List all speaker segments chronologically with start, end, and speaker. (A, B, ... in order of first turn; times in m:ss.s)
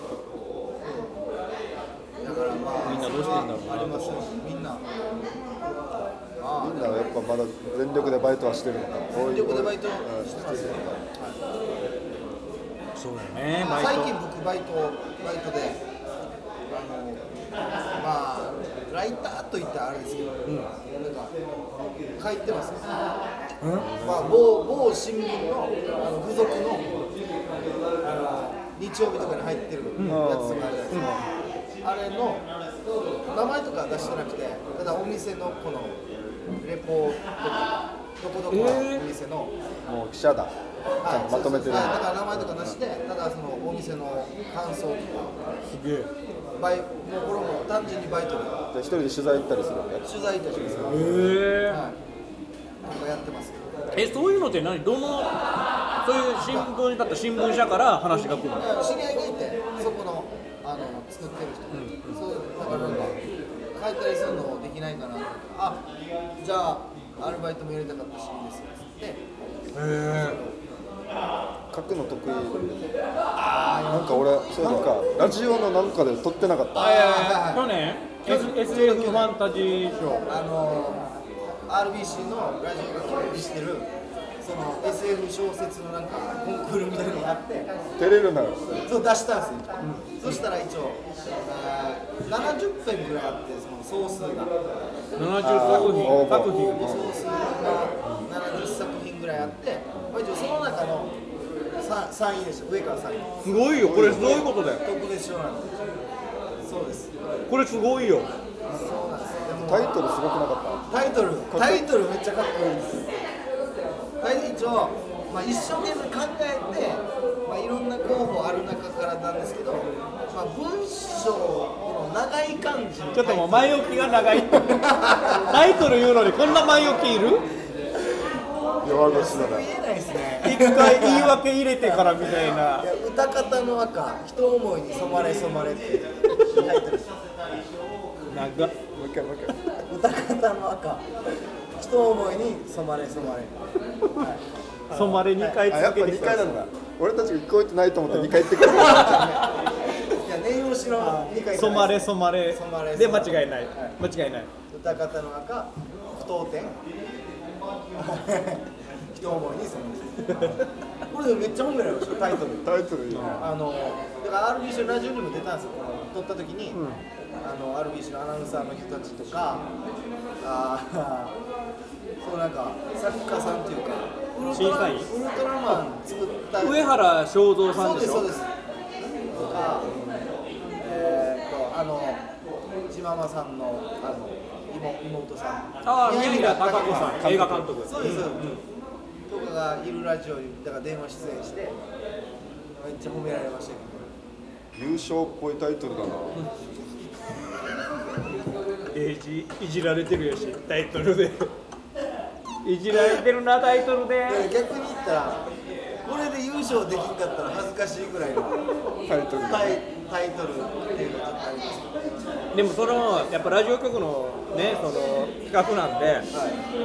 0:02.2-0:04.8 A
0:02.8-0:04.3 B
0:06.4-0:07.0 A
0:06.6-0:10.9 C
0:09.2-0:11.4 A
0:13.0-0:14.1 B
0:13.6-0:15.8 A
0:16.7-0:17.3 A
0:18.0-0:21.4 A
0:20.5-0:20.7 B
0:22.2-0:22.9 A
0:23.6-0:23.9 B
0:23.8-0:24.4 C
0:24.0-0:27.0 A
0:28.0-0:31.1 A
0:30.1-0:31.2 C
0:30.9-0:31.2 B
0:31.8-0:32.5 A
0:33.3-0:36.0 A
0:36.6-0:39.5 A
0:38.5-0:39.0 B
0:39.9-0:40.5 C
0:41.0-0:45.3 A
0:41.1-0:42.8 C
0:45.7-0:46.1 B
0:46.6-0:48.6 A
0:48.7-0:51.3 C
0:50.0-0:52.0 A
0:50.8-0:51.8 B
0:52.8-0:53.7 A
0:53.9-0:55.4 B
0:56.0-0:58.8 B
0:58.5-1:03.2 A
1:01.7-1:02.2 B
1:02.7-1:03.2 C
1:03.7-1:05.8 A
1:06.4-1:09.2 A
1:09.7-1:10.4 B
1:10.1-1:10.6 A
1:11.7-1:12.9 C
1:13.4-1:15.1 A
1:13.9-1:16.9 C
1:16.8-1:17.7 A
1:16.8-1:20.2 B
1:18.2-1:19.3 A
1:20.3-1:21.1 A
1:21.7-1:23.9 A
1:24.4-1:27.7 A
1:28.0-1:28.8 C
1:28.8-1:34.5 A
1:29.8-1:30.4 B
1:35.2-1:37.0 B
1:35.4-1:37.1 C
1:35.6-1:41.1 A
1:39.4-1:40.0 C
1:41.8-1:43.3 A
1:43.4-1:44.8 B
1:43.8-1:44.5 C
1:44.8-1:45.8 A
1:46.6-1:47.1 A
1:47.5-1:48.3 B
1:48.7-1:49.9 A
1:49.6-1:50.8 C
1:50.9-1:53.1 A
1:51.5-1:51.9 C
1:54.2-2:05.8 A
2:03.1-2:07.4 B
2:08.8-2:09.7 C
2:09.0-2:12.1 A
2:10.4-2:12.9 B
2:12.8-2:17.1 A
2:18.3-2:18.8 B
2:18.9-2:19.5 C
2:19.9-2:21.0 A
2:21.8-2:25.6 A
2:24.9-2:26.6 B
2:25.7-2:29.4 C
2:28.1-2:29.5 B
2:28.6-2:34.0 A
2:31.2-2:34.5 B
2:34.7-2:36.8 A
2:38.0-2:42.7 A
2:40.2-2:40.7 B
2:42.6-2:43.4 C
2:43.1-2:43.4 B
2:43.3-2:46.8 A
2:46.8-2:47.0 B
2:47.4-2:49.7 A
2:50.4-2:51.4 A
2:52.2-2:57.0 A
2:54.5-2:55.1 B
2:56.6-2:58.3 B
2:57.7-2:58.5 A
2:59.4-3:00.0 A
3:00.8-3:02.2 A
3:02.9-3:07.3 A
3:05.8-3:08.6 B
3:07.0-3:07.7 C
3:07.8-3:08.6 A
3:09.3-3:11.8 A
3:12.8-3:14.1 A
3:14.8-3:16.4 C
3:18.9-3:21.5 B
3:22.6-3:24.5 B
3:22.9-3:23.2 A
3:24.3-3:25.4 A
3:26.0-3:28.6 A
3:29.1-3:29.8 C
3:29.5-3:32.3 A
3:32.5-3:36.3 B
3:36.3-3:36.6 A